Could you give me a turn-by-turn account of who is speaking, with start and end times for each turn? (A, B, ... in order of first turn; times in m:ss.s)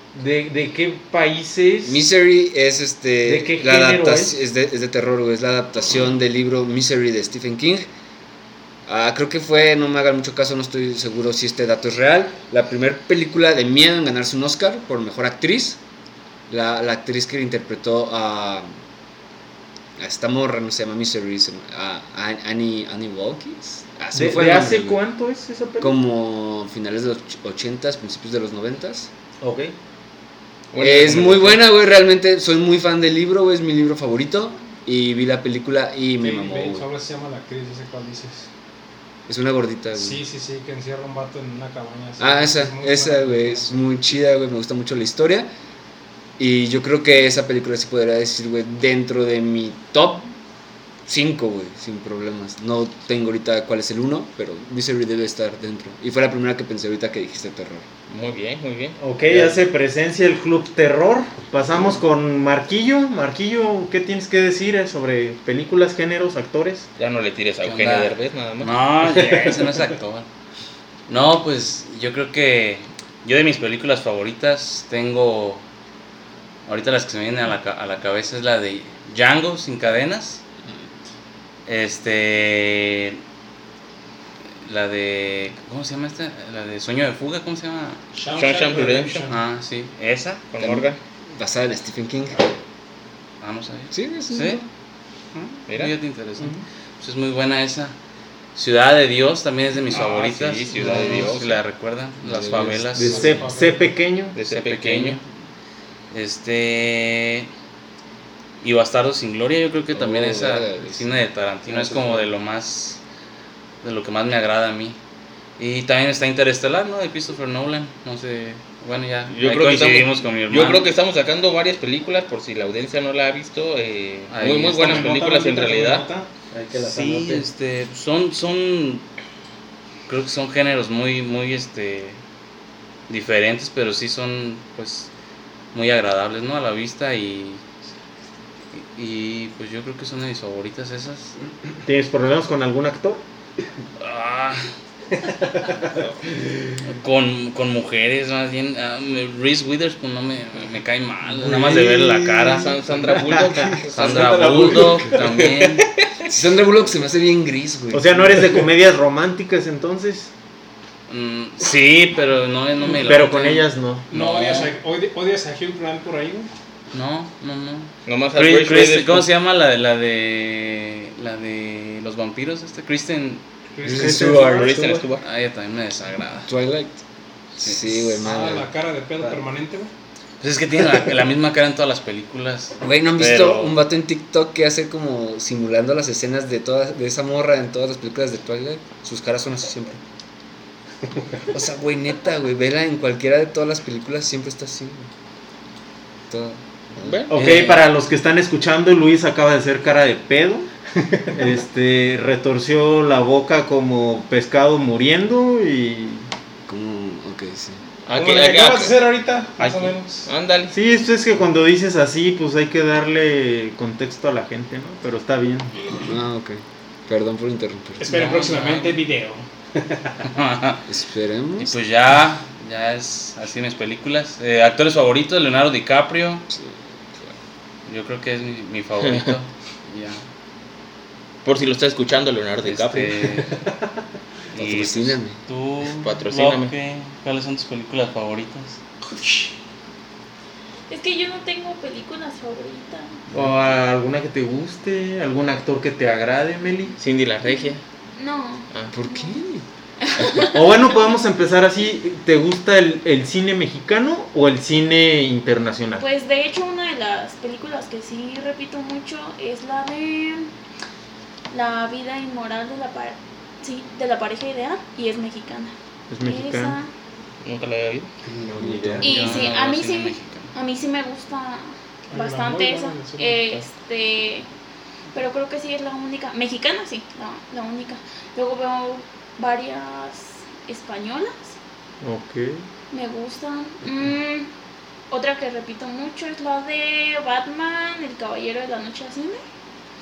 0:00.1-0:02.1 A
0:01.8-0:07.9 B
0:03.2-0:04.4 A
0:08.9-0:15.8 B
0:16.5-0:18.7 B
0:20.0-0:25.0 B
0:24.2-0:26.0 A
0:25.8-0:29.1 B
0:29.4-0:29.7 A
0:30.7-0:31.6 C
0:30.8-0:36.9 B
0:36.2-0:38.5 D
0:39.3-0:40.2 B
0:39.9-0:43.7 D
0:42.2-0:45.5 B
0:46.4-0:50.3 B
0:51.1-0:57.9 B
0:58.1-0:59.0 C
0:59.0-1:06.9 A
1:07.0-1:08.7 C
1:07.6-1:10.3 E
1:09.0-1:09.8 F
1:11.1-1:15.6 E
1:16.7-1:20.4 E
1:21.7-1:23.2 E
1:24.6-1:28.0 E
1:28.1-1:29.4 D
1:28.3-1:29.2 C
1:29.3-1:30.5 E
1:30.5-1:31.0 C
1:31.4-1:32.5 B
1:33.4-1:34.6 E
1:33.9-1:34.7 B
1:35.4-1:37.9 E
1:35.7-1:35.9 C
1:38.6-1:43.4 E
1:39.9-1:41.6 C
1:42.2-1:43.1 B
1:43.0-1:44.0 D
1:43.0-1:44.4 A
1:44.3-1:45.2 C
1:44.5-1:45.2 E
1:46.1-1:47.5 E
1:48.6-1:53.0 E
1:49.9-1:52.2 B
1:53.8-1:55.0 E
1:55.6-2:00.9 E
1:59.3-2:06.1 C
2:04.3-2:05.1 E
2:04.5-2:06.3 D
2:06.5-2:07.4 F
2:06.8-2:09.0 E
2:10.1-2:12.2 E
2:13.1-2:15.1 E
2:15.7-2:17.6 E
2:18.7-2:21.4 E
2:21.8-2:23.2 A
2:24.0-2:24.7 E
2:26.9-2:32.8 E
2:32.5-2:33.9 C
2:33.3-2:33.8 B
2:33.9-2:35.7 F
2:33.9-2:35.8 E
2:36.3-2:38.5 B
2:37.9-2:40.3 A
2:41.1-2:44.7 E
2:42.9-2:44.1 A
2:44.1-2:46.5 D
2:46.9-2:53.4 E
2:48.1-2:49.3 C
2:53.8-2:54.1 D
2:53.8-2:54.8 B
2:53.9-2:55.0 F
2:54.0-2:55.2 C
2:55.2-2:56.5 E
2:56.5-2:57.0 B
2:57.6-2:58.7 B
2:58.2-2:59.9 D
3:00.4-3:03.8 E
3:02.8-3:10.0 B
3:11.5-3:15.1 B
3:16.3-3:17.2 B
3:17.0-3:17.3 C
3:17.3-3:20.7 A
3:17.3-3:17.9 E
3:21.3-3:26.3 A
3:26.7-3:27.8 B
3:28.1-3:29.0 C
3:28.1-3:30.3 D
3:29.6-3:30.7 C
3:30.7-3:35.9 A
3:36.0-3:38.1 B
3:38.0-3:39.4 D
3:38.1-3:39.0 E
3:40.2-3:40.8 E
3:40.9-3:41.8 B
3:41.6-3:46.4 E
3:46.5-3:47.3 B
3:47.9-3:50.2 E
3:51.4-3:53.2 C
3:52.6-3:53.5 E
3:54.5-3:58.8 E
3:54.6-3:55.4 B
3:55.9-3:56.7 C
4:00.9-4:03.2 G
4:03.3-4:06.9 A
4:07.0-4:07.8 C
4:07.4-4:09.4 G
4:08.9-4:09.6 B
4:10.0-4:10.6 G
4:10.5-4:16.0 A
4:16.0-4:20.5 G
4:21.5-4:26.9 G
4:26.1-4:26.8 A
4:27.4-4:28.1 C
4:28.4-4:29.1 B
4:28.6-4:29.1 F
4:28.6-4:29.0 A
4:29.0-4:34.5 G
4:29.0-4:30.5 E
4:32.1-4:33.6 D
4:35.1-4:41.5 G
4:42.0-4:42.6 A
4:42.9-4:44.5 G
4:45.1-4:49.4 G